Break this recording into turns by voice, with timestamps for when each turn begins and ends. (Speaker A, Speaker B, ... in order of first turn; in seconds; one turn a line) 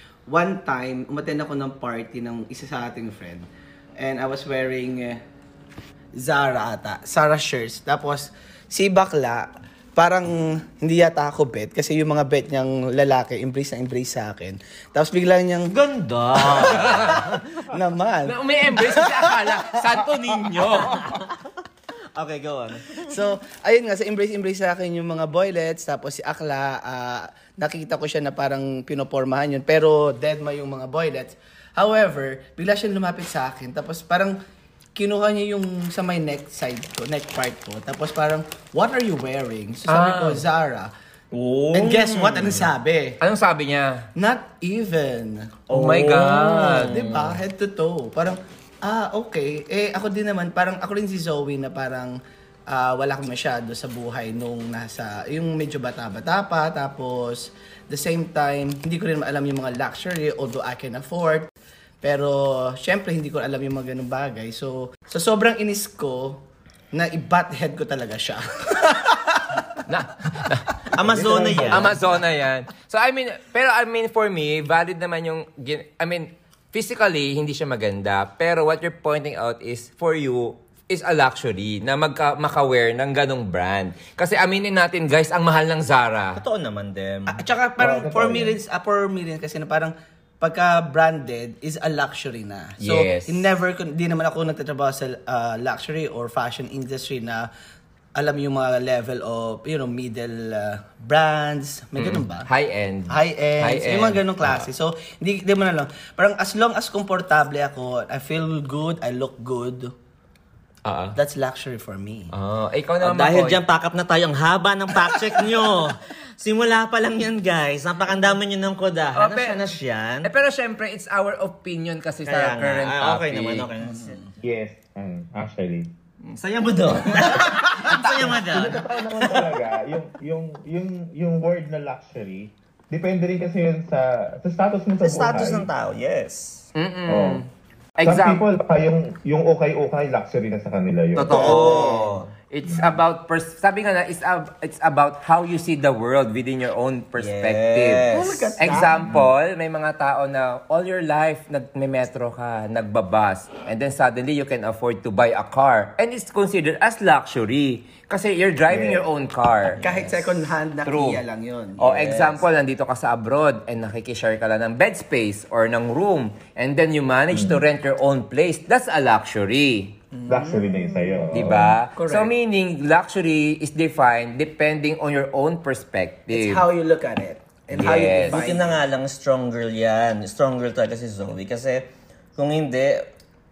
Speaker A: 0.3-3.5
Speaker A: 4.0-5.2
Speaker A: 6.2-15.7
Speaker B: 15.7-17.4
Speaker A: 16.4-20.0
Speaker C: 16.6-17.2
Speaker C: 18.3-21.1
Speaker B: 20.8-21.4
Speaker B: 22.1-23.2
Speaker A: 23.0-34.4
Speaker A: 35.0-40.9
Speaker C: 39.9-40.4
Speaker B: 41.3-42.7
Speaker A: 41.7-43.2
Speaker C: 43.2-44.0
Speaker A: 44.2-45.5
Speaker B: 45.7-47.4
Speaker C: 45.7-47.1
Speaker A: 46.9-52.2
Speaker A: 52.7-61.5
Speaker A: 62.0-66.4
Speaker A: 66.9-69.8
Speaker C: 69.9-70.7
Speaker B: 70.9-71.9
Speaker D: 71.0-72.0
Speaker C: 71.7-86.4
Speaker B: 86.4-87.4
Speaker A: 87.3-97.5
Speaker D: 87.8-88.6
Speaker C: 92.8-93.5
Speaker A: 98.2-102.5
Speaker C: 102.0-104.7
Speaker A: 103.1-109.9
Speaker C: 110.8-111.2
Speaker A: 111.2-112.3
Speaker C: 112.3-113.6
Speaker B: 113.0-120.3
Speaker A: 115.1-115.6
Speaker C: 119.1-119.7
Speaker C: 120.2-123.7
Speaker B: 122.2-124.2
Speaker A: 123.8-124.3
Speaker D: 124.4-125.9
Speaker B: 126.3-129.0
Speaker D: 128.3-135.7
Speaker B: 135.0-136.7
Speaker C: 136.8-137.4
Speaker D: 137.1-137.4
Speaker C: 138.0-138.4
Speaker D: 138.0-141.5
Speaker C: 141.2-148.1
Speaker B: 141.3-142.3
Speaker A: 141.3-142.0
Speaker D: 142.7-142.9
Speaker B: 147.2-148.6
Speaker A: 148.1-149.2
Speaker C: 148.6-159.8
Speaker D: 158.7-159.0
Speaker B: 159.7-160.3
Speaker A: 159.8-161.8
Speaker C: 160.8-161.2
Speaker C: 161.8-169.9
Speaker B: 161.8-162.4
Speaker D: 167.3-167.6
Speaker A: 170.1-172.3
Speaker D: 170.3-171.8
Speaker C: 171.3-176.6
Speaker A: 176.3-178.8
Speaker C: 177.7-178.4
Speaker B: 177.9-183.1